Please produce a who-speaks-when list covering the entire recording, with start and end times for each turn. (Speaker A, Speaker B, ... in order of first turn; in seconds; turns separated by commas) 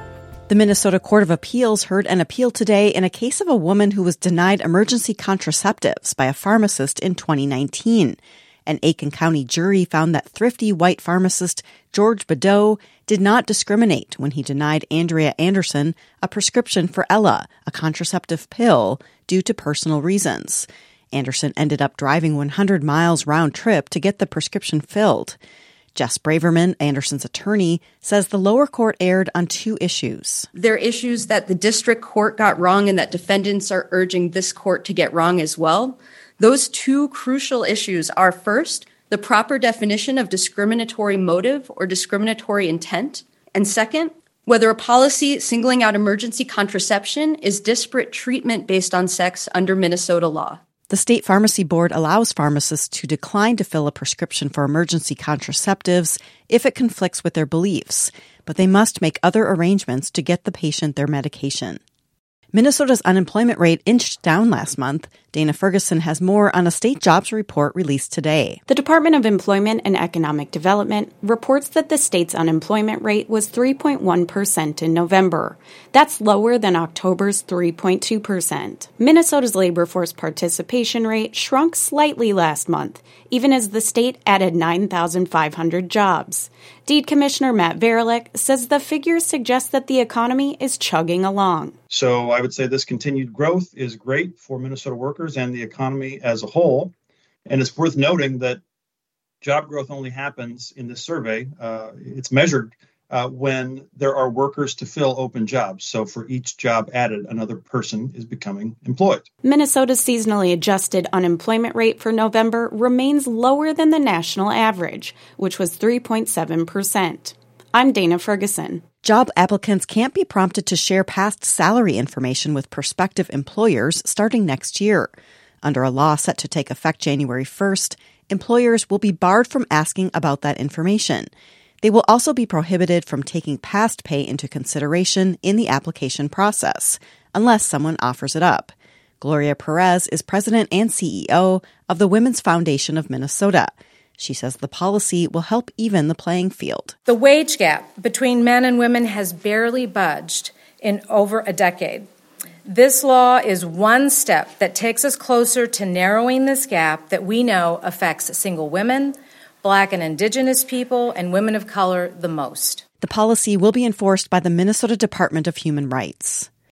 Speaker A: 0.5-25.4, Speaker A: 25.9-30.5, Speaker B: 30.5-50.6, Speaker A: 50.9-61.8, Speaker A: 62.5-68.6, Speaker C: 68.7-91.8, Speaker D: 91.9-96.9, Speaker D: 97.5-98.6, Speaker D: 99.4-109.2, Speaker C: 109.4-118.8, Speaker A: 119.0-131.3, Speaker A: 131.8-146.9, Speaker E: 147.1-152.1, Speaker E: 152.7-162.8, Speaker A: 163.0-166.5